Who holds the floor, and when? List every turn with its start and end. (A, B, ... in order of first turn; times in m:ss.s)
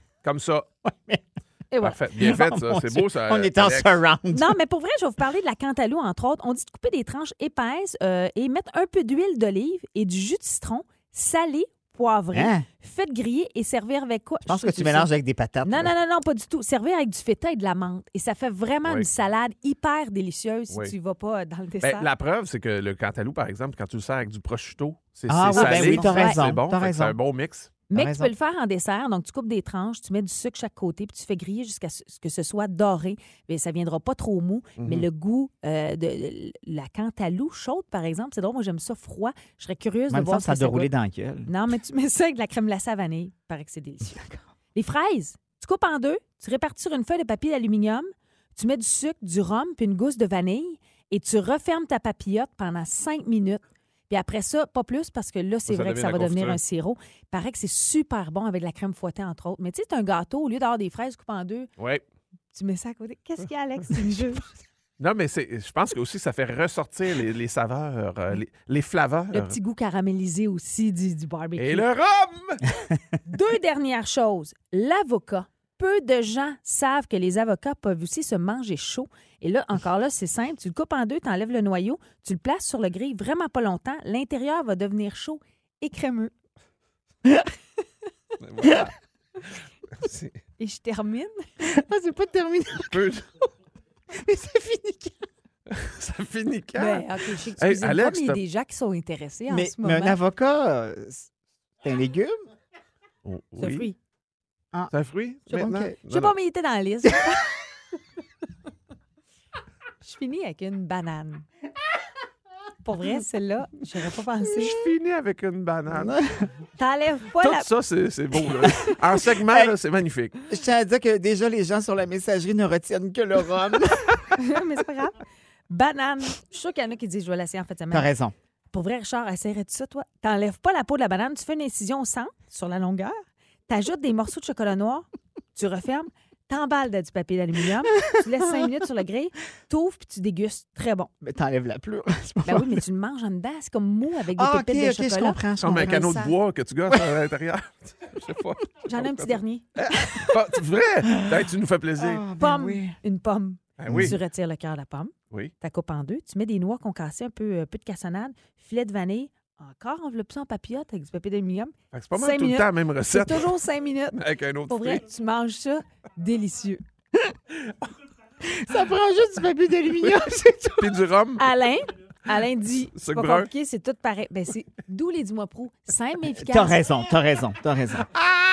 0:00.2-0:00.7 A
0:00.9-0:01.2 B
0:01.7-0:02.0 C
0:01.8-0:04.0 A
0:02.2-0:04.6 B
0:04.3-0:15.1 C
0:12.3-0:12.7 B
0:14.5-0:15.9 B
0:15.6-0:22.1 C
0:21.8-0:27.7 A
0:25.3-0:27.2 B
0:25.5-0:26.4 C
0:27.9-0:40.9 C
0:27.9-0:28.3 B
0:34.8-0:35.1 A
0:40.1-0:41.5 B
0:41.5-0:44.2 C
0:44.1-0:44.4 B
0:44.8-1:01.7 C
0:55.7-0:56.6 A
1:01.8-1:02.0 A
1:02.5-1:04.5 C
1:05.0-1:09.6 A
1:09.3-1:11.9 C
1:11.6-1:12.6 A
1:13.3-1:26.3 C
1:28.4-1:28.9 A
1:30.0-1:30.4 A
1:30.6-1:31.4 C
1:31.6-1:33.1 B
1:32.9-1:33.2 A
1:34.2-1:35.2 B
1:35.7-1:38.4 A
1:36.8-1:40.2 C
1:39.5-1:41.3 B
1:41.8-1:42.4 B
1:43.2-1:43.9 A
1:43.6-1:44.0 C
1:44.9-1:46.3 A
1:45.5-1:45.9 B
1:46.1-1:47.5 C
1:50.0-1:51.5 C
1:52.8-1:54.7 C
1:54.6-1:56.2 A
1:56.8-1:57.7 C
1:57.4-2:00.4 A
2:00.5-2:04.2 B
2:04.4-2:08.1 C
2:07.9-2:08.4 B
2:08.7-2:21.1 C
2:21.2-2:22.8 B
2:22.4-2:26.3 C
2:24.3-2:26.2 B
2:25.6-2:32.2 A
2:28.9-2:30.3 C
2:32.0-2:33.0 B
2:32.4-2:46.8 C
2:33.8-2:34.2 A
2:33.9-2:34.1 B
2:41.9-2:43.6 A
2:44.1-2:45.0 A
2:48.4-2:51.0 B
2:50.8-2:51.4 A
2:51.4-2:56.8 C
2:53.0-2:53.5 A
2:56.4-2:58.2 B